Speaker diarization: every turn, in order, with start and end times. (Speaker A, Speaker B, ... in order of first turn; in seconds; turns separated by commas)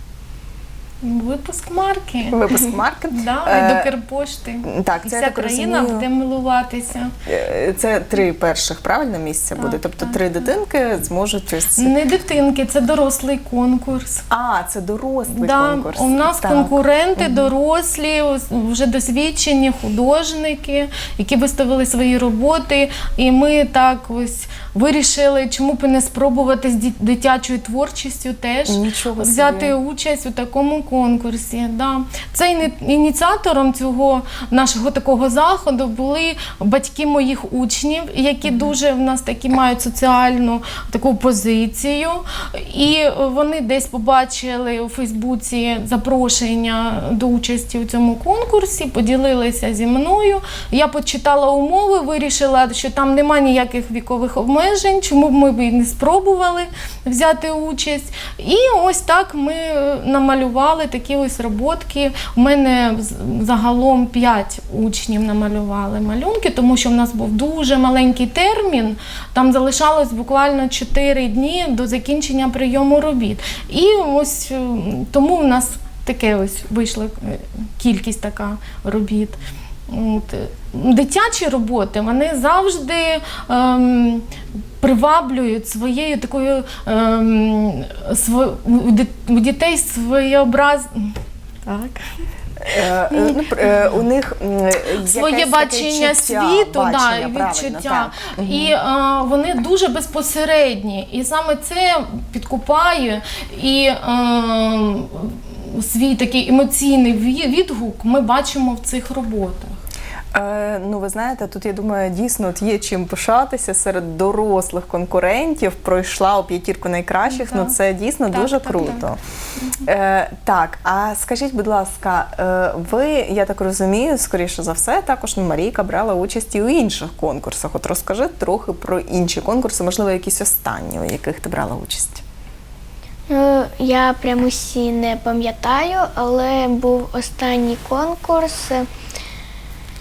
Speaker A: 1.0-2.4, Speaker B: 2.3-3.9, Speaker A: 3.1-7.1, Speaker B: 4.6-6.1, Speaker B: 7.2-11.9, Speaker A: 9.6-10.4, Speaker A: 11.8-14.2, Speaker B: 14.3-17.5, Speaker A: 15.3-84.3, Speaker B: 28.6-29.8, Speaker B: 38.4-38.7, Speaker A: 84.8-93.8, Speaker B: 92.6-98.8, Speaker A: 95.0-109.8, Speaker B: 110.3-119.2, Speaker A: 117.2-117.7, Speaker A: 118.3-119.0, Speaker B: 119.8-132.2, Speaker C: 133.3-138.9